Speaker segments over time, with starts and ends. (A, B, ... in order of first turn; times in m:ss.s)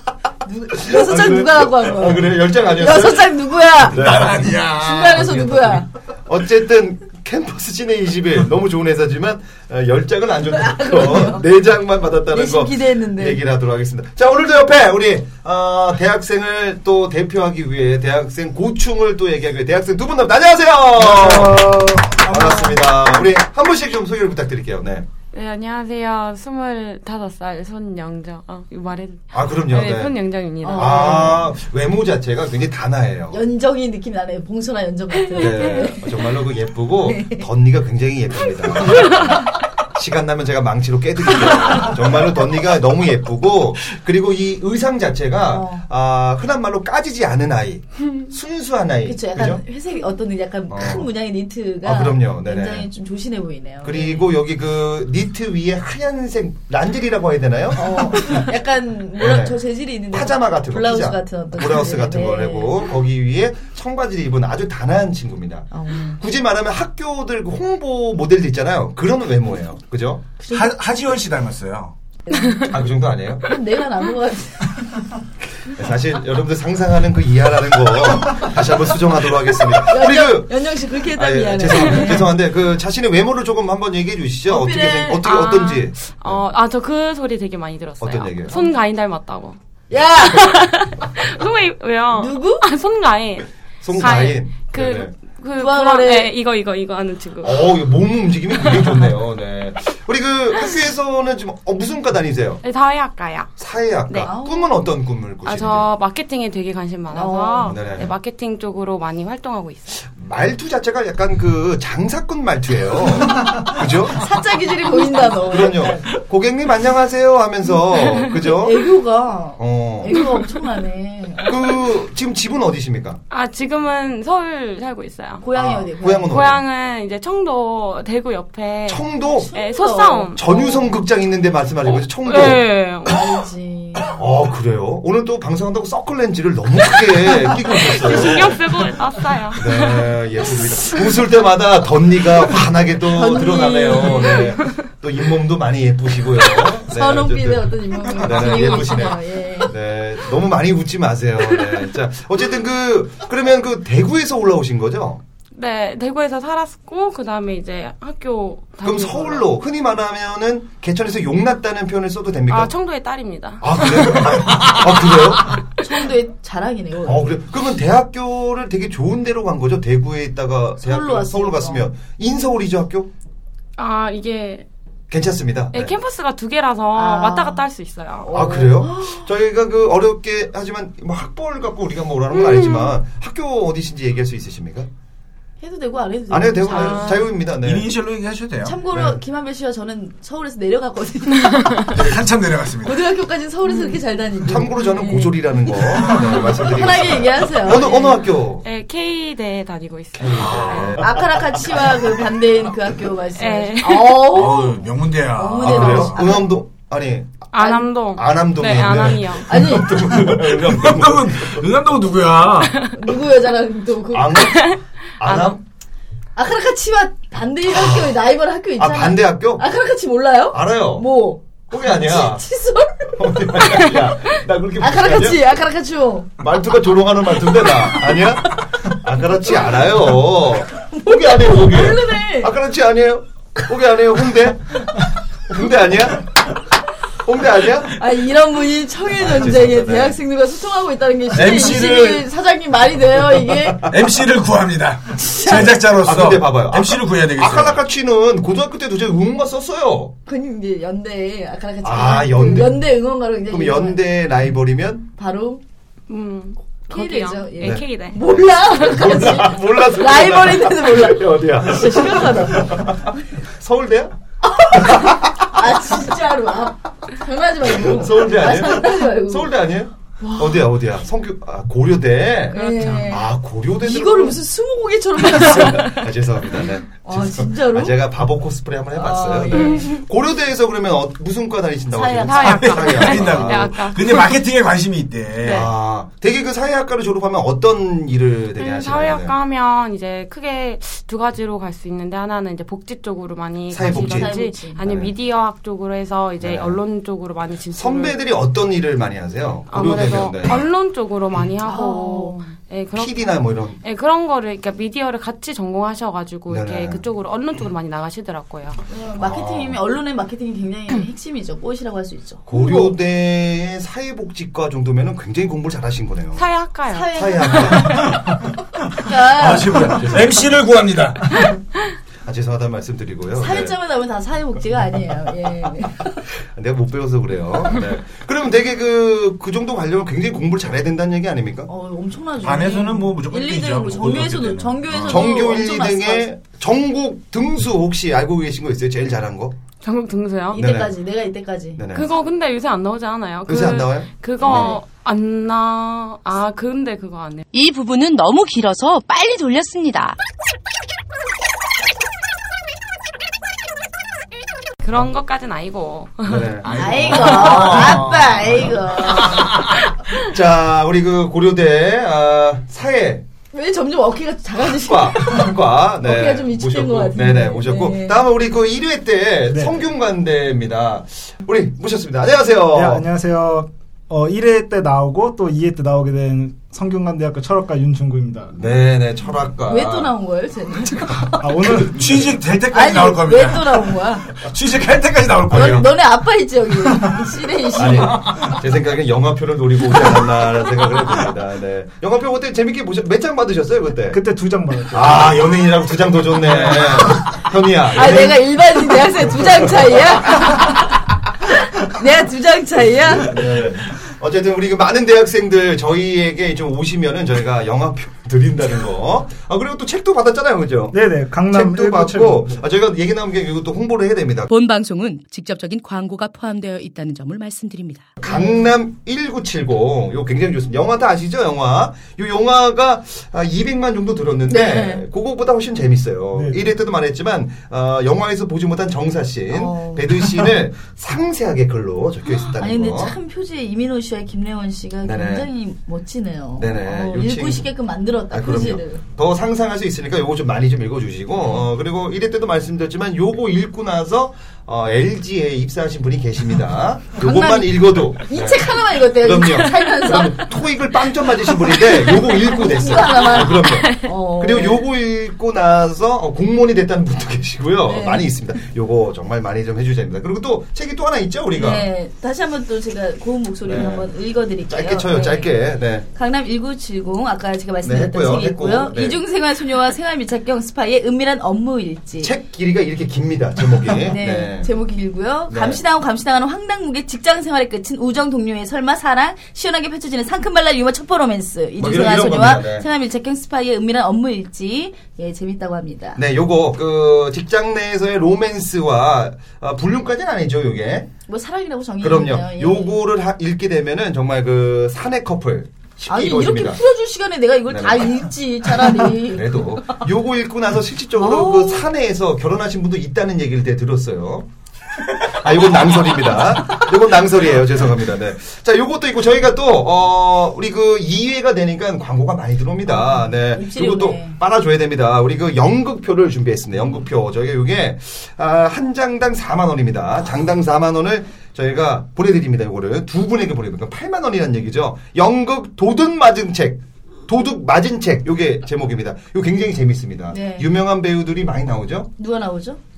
0:00.4-0:05.9 A
0:00.7-0:03.3 B
0:03.9-0:25.1 B
0:04.0-0:05.2 C
0:10.5-0:11.4 A
0:12.3-0:13.4 A
0:25.3-0:31.3 D
0:29.3-0:30.1 B
0:30.6-0:31.4 A
0:30.7-0:33.4 B
0:33.3-0:36.1 A
0:35.3-0:35.9 D
0:35.3-0:49.6 B
0:37.0-0:37.4 A
0:45.5-0:45.8 A
0:49.0-0:54.3 A
0:50.7-0:51.1 B
0:51.8-0:52.9 B
0:53.8-0:58.5 B
0:57.8-1:02.9 A
0:59.2-1:10.2 B
1:05.7-1:06.2 A
1:10.4-1:10.7 A
1:10.5-1:11.9 C
1:12.3-1:12.8 A
1:12.7-1:13.4 B
1:13.4-1:14.8 A
1:15.6-1:26.4 B
1:19.8-1:22.3 A
1:24.4-1:25.2 A
1:25.2-1:29.6 D
1:28.0-1:28.5 B
1:29.9-1:30.6 A
1:30.2-1:37.7 D
1:32.1-1:32.6 A
1:33.8-1:35.1 B
1:35.5-1:36.3 A
1:37.4-1:42.6 B
1:42.6-1:43.5 D
1:43.6-1:45.9 B
1:44.2-1:44.8 A
1:45.4-1:50.0 D
1:47.1-1:47.7 A
1:47.6-1:48.1 B
1:50.1-1:54.2 B
1:53.3-1:56.0 A
1:55.4-1:58.9 B
1:57.9-1:58.3 D
1:58.4-2:01.6 A
1:59.6-2:00.2 B
2:01.4-2:03.2 B
2:03.3-2:05.4 D
2:05.4-2:06.4 A
2:05.5-2:06.6 B
2:06.3-2:10.5 D
2:08.8-2:09.5 B
2:09.4-2:10.9 A
2:10.4-2:12.6 B
2:11.8-2:13.3 D
2:13.0-2:14.1 A
2:14.1-2:18.8 B
2:17.8-2:19.9 D
2:19.5-2:35.2 B
2:23.1-2:24.7 D
2:23.9-2:24.5 A
2:26.8-2:29.7 A
2:28.5-2:29.0 D
2:35.5-2:39.5 D
2:38.8-2:42.7 B
2:42.5-2:44.3 D
2:43.6-2:45.6 B
2:45.8-2:47.4 A
2:47.0-2:53.1 B
2:50.8-2:51.9 A
2:53.8-2:54.6 D
2:55.1-2:56.0 B
2:55.7-2:58.8 D
2:56.9-2:57.6 A
2:58.3-2:59.3 A
2:58.3-3:04.9 B
3:02.3-3:03.0 D
3:05.6-3:07.2 A
3:06.3-3:07.9 B
3:06.7-3:07.2 D
3:07.6-3:08.8 C
3:08.6-3:12.0 A
3:08.9-3:09.2 B
3:11.4-3:11.8 D
3:11.9-3:13.0 C
3:12.8-3:18.2 A
3:13.7-3:14.0 D
3:14.4-3:18.6 B
3:18.6-3:21.0 D
3:20.2-3:22.0 B
3:20.3-3:21.0 C
3:21.0-3:24.8 A
3:23.4-3:24.3 D
3:24.3-3:26.4 C
3:25.3-3:26.5 A
3:25.6-3:27.5 B
3:27.5-3:29.5 D
3:27.6-3:27.8 A
3:28.1-3:31.7 B
3:29.4-3:30.0 A
3:29.9-3:32.9 C
3:32.9-3:34.5 A
3:34.1-3:35.6 B
3:34.5-3:35.6 D
3:36.4-3:43.6 A
3:37.6-3:38.2 B
3:38.8-3:39.6 B
3:40.5-3:41.1 B
3:41.7-3:42.4 B
3:43.2-3:45.4 B
3:44.8-3:46.5 A
3:46.4-3:54.9 B
3:47.3-3:48.3 A
3:49.5-3:49.8 A
3:50.9-3:52.5 A
3:55.5-3:56.4 B
3:57.2-3:58.0 B
3:57.9-4:03.9 A
3:59.1-4:00.2 B
4:01.3-4:02.3 C
4:03.9-4:07.8 C
4:05.1-4:05.8 A
4:05.5-4:10.1 B
4:10.2-4:14.0 A
4:11.8-4:12.8 B
4:13.5-4:15.1 B
4:15.2-4:15.6 A
4:16.1-4:18.2 D
4:16.9-4:23.0 A
4:17.6-4:24.1 B
4:24.5-4:29.6 A
4:24.7-4:25.3 B
4:27.6-4:34.4 B
4:30.2-4:30.7 A
4:32.5-4:33.3 A
4:32.5-4:33.1 D
4:33.8-4:36.1 A
4:35.2-4:43.7 B
4:37.0-4:38.0 A
4:39.0-4:40.0 A
4:41.9-4:43.1 A
4:42.2-4:44.4 D
4:42.4-4:45.7 C
4:45.4-4:49.3 B
4:48.6-4:58.2 D
4:53.7-4:55.1 B
4:53.8-4:54.8 A
4:56.4-4:56.8 B
4:57.7-5:00.6 B
4:59.7-5:03.3 D
5:01.6-5:02.5 A
5:02.9-5:03.8 B
5:03.8-5:08.8 D
5:06.5-5:07.0 B
5:08.9-5:12.9 A
5:09.2-5:09.8 B
5:12.4-5:16.4 B
5:16.3-5:18.0 D
5:16.9-5:18.1 A
5:17.1-5:18.1 B
5:18.9-5:20.1 A
5:19.0-5:21.4 C
5:19.8-5:20.5 B
5:22.2-5:23.7 B
5:23.4-5:26.2 A
5:26.5-5:31.7 B
5:31.7-5:36.3 A
5:32.4-5:35.2 C
5:35.0-5:39.6 B
5:39.8-5:40.6 D
5:40.5-5:40.9 B
5:40.5-5:41.8 A
5:41.8-5:42.1 B
5:41.9-5:47.5 D
5:43.5-5:44.8 B
5:44.4-5:44.8 A
5:47.5-5:50.2 E
5:54.8-5:57.7 D
5:56.2-5:58.7 B
5:56.7-5:58.7 C
5:56.7-5:59.6 A
6:00.2-6:03.2 B
6:03.5-6:08.2 A
6:04.6-6:13.0 B
6:12.7-6:18.5 F
6:18.5-6:20.1 B
6:19.6-6:21.5 A
6:21.4-6:22.2 F
6:21.8-6:25.9 C
6:22.7-6:24.4 A
6:25.5-6:28.2 A
6:27.8-6:34.2 B
6:34.1-6:35.4 F
6:34.9-6:38.4 B
6:36.5-6:36.9 C
6:37.9-6:40.9 A
6:41.5-6:43.4 A
6:43.2-6:54.5 B
6:50.9-6:52.6 F
6:54.5-6:58.1 E
6:58.2-7:13.1 B
6:58.2-6:58.6 A
7:04.5-7:05.0 A
7:06.3-7:06.6 F
7:09.5-7:10.1 A
7:12.4-7:19.0 A
7:15.0-7:15.5 B
7:16.6-7:17.7 B
7:18.3-7:41.9 B
7:27.2-7:30.5 A
7:31.5-7:34.8 A
7:37.8-7:38.3 A
7:41.5-7:45.5 A
7:43.6-7:44.1 B
7:44.7-7:46.0 B
7:46.1-7:52.3 A
7:47.8-7:49.2 B
7:52.2-7:54.7 B
7:54.1-8:06.2 A
7:55.5-7:55.8 B
8:01.8-8:02.9 B
8:06.2-8:11.1 B
8:11.3-8:13.0 A
8:12.0-8:16.8 B
8:16.1-8:20.0 A
8:17.7-8:18.2 B
8:18.8-8:24.5 B
8:21.1-8:21.9 A
8:25.3-8:52.1 B
8:32.8-8:34.4 A
8:50.3-8:50.7 A
8:52.2-8:52.8 A